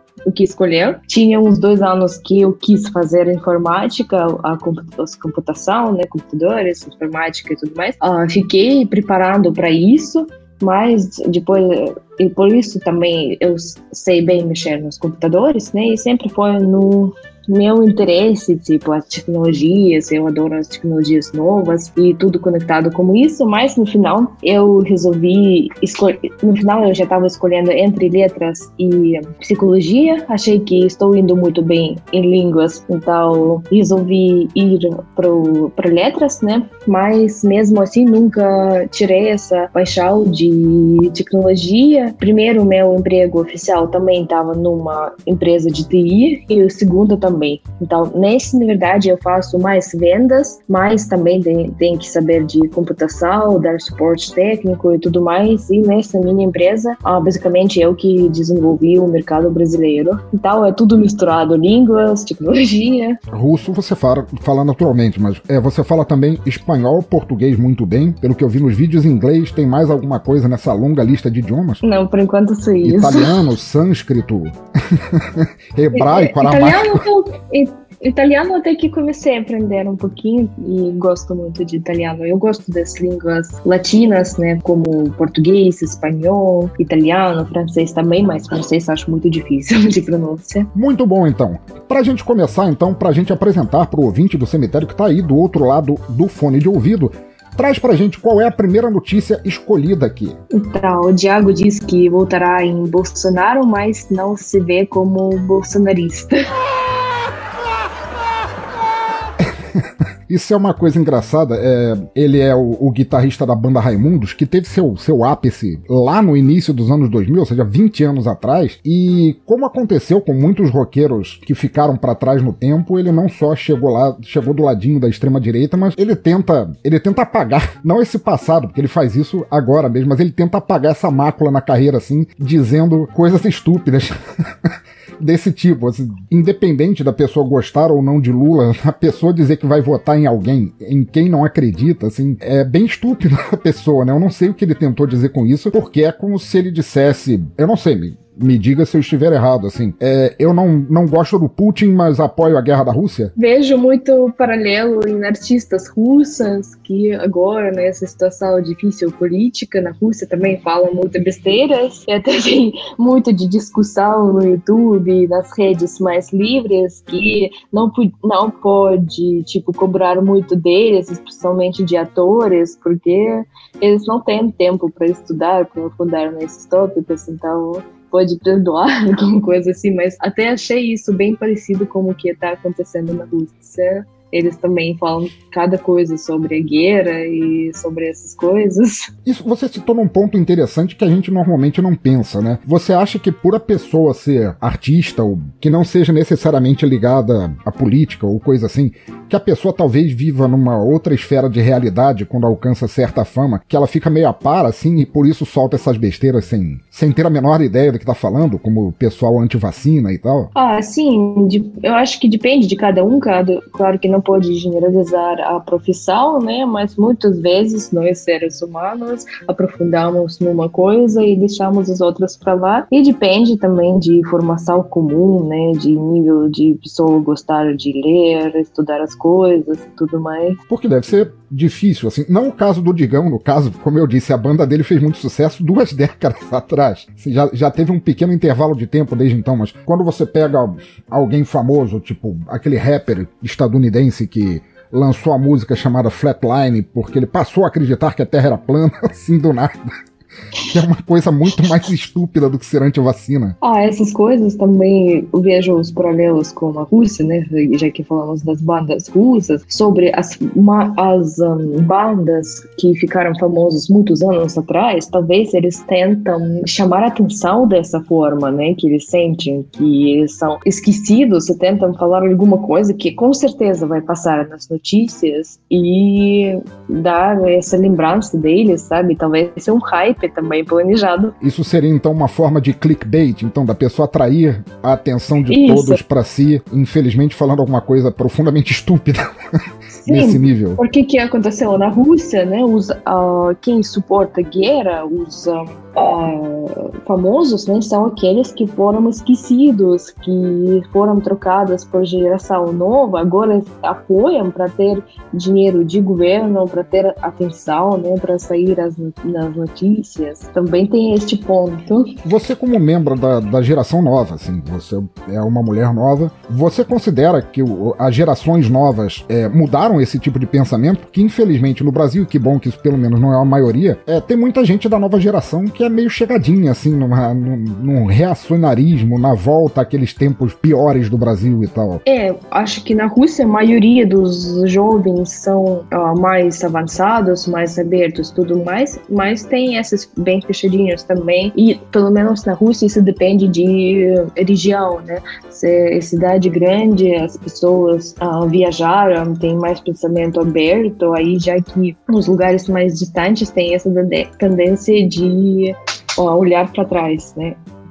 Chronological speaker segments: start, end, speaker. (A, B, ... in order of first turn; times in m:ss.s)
0:00.3-1:03.2 A
1:03.3-1:11.8 B
1:11.8-1:13.4 A
1:12.8-1:17.0 B
1:15.9-1:30.7 A
1:30.7-1:40.4 B
1:40.5-1:46.5 A
1:49.4-2:33.3 B
2:33.4-3:09.1 A
3:09.2-3:30.5 B
3:30.5-3:50.6 A
3:50.7-4:09.9 B
4:10.7-4:13.5 B
4:13.6-4:41.3 A
4:41.4-4:49.3 B
4:45.5-4:46.0 A
4:50.0-5:12.1 A
4:50.0-4:50.8 B
5:12.2-5:32.0 B
5:32.0-5:57.6 A